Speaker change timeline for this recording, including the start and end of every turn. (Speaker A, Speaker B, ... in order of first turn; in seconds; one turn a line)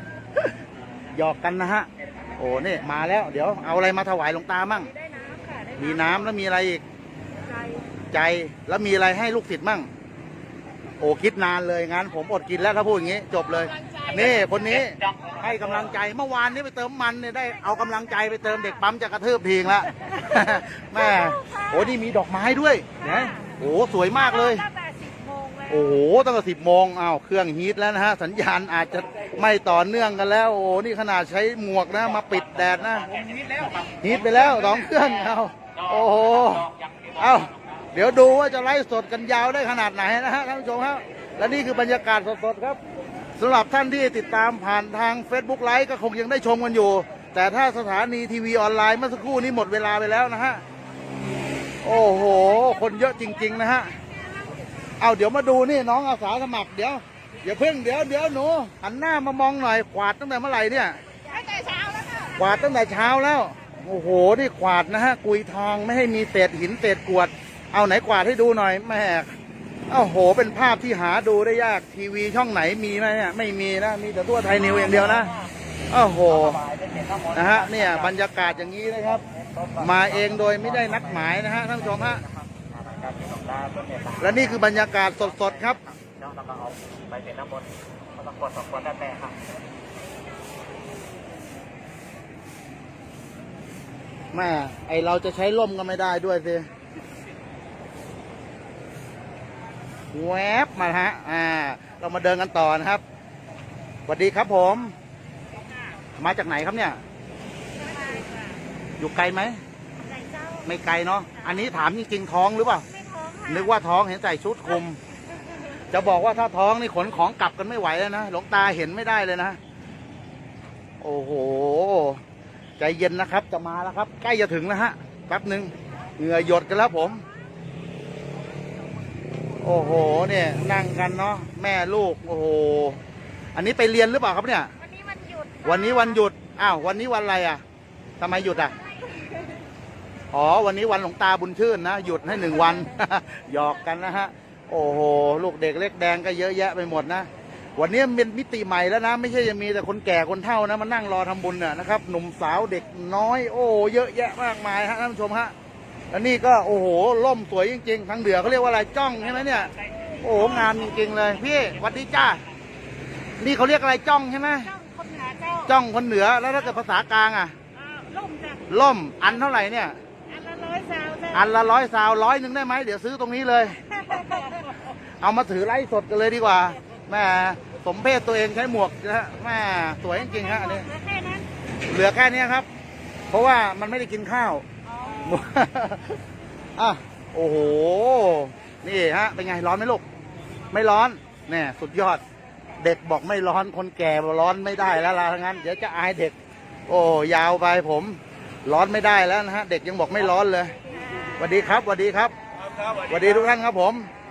Speaker A: 1.1-4.9
Speaker B: 5.1-5.8
Speaker A: 5.7-6.8
Speaker B: 7.5-7.8
Speaker A: 8.1-9.9
Speaker A: 11.0-24.7
Speaker C: 14.7-15.3
Speaker B: 24.6-25.7
Speaker A: 25.7-42.8
Speaker C: 32.2-37.5
Speaker A: 43.4-50.6
Speaker A: 51.8-54.0
Speaker A: 55.0-61.0
Speaker A: 62.2-69.3
Speaker A: 69.9-75.3
Speaker C: 74.7-75.3
Speaker A: 75.9-76.6
Speaker C: 76.3-78.1
Speaker A: 77.3-79.2
Speaker C: 79.3-89.4
Speaker A: 79.8-82.2
Speaker A: 84.2-85.8
Speaker A: 94.3-96.7
Speaker A: 100.1-103.0
Speaker A: 104.1-104.9
Speaker A: 106.1-107.0
Speaker B: 107.8-108.6
Speaker A: 109.0-109.6
Speaker B: 110.0-110.6
Speaker A: 110.6-112.8
Speaker B: 112.9-113.5
Speaker A: 113.5-115.0
Speaker A: 115.9-119.6
Speaker A: 121.0-122.2
Speaker A: 122.8-127.2
Speaker A: 129.6-133.0
Speaker A: 133.5-134.7
Speaker B: 134.9-135.6
Speaker A: 135.6-137.6
Speaker A: 138.2-138.7
Speaker A: 140.3-155.5
Speaker A: 156.1-159.7
Speaker A: 160.2-162.4
Speaker A: 163.4-164.7
Speaker B: 164.7-165.7
Speaker A: 165.6-167.5
Speaker B: 167.8-168.6
Speaker A: 168.7-170.0
Speaker B: 170.3-171.3
Speaker A: 171.3-174.6
Speaker A: 175.2-180.9
Speaker B: 180.6-181.5
Speaker A: 181.9-182.7
Speaker A: 183.3-186.2
Speaker B: 184.9-185.2
Speaker A: 186.8-190.0
Speaker A: 190.7-192.2
Speaker A: 192.8-196.3
Speaker A: 196.9-200.7
Speaker A: 201.3-202.3
Speaker A: 203.1-204.1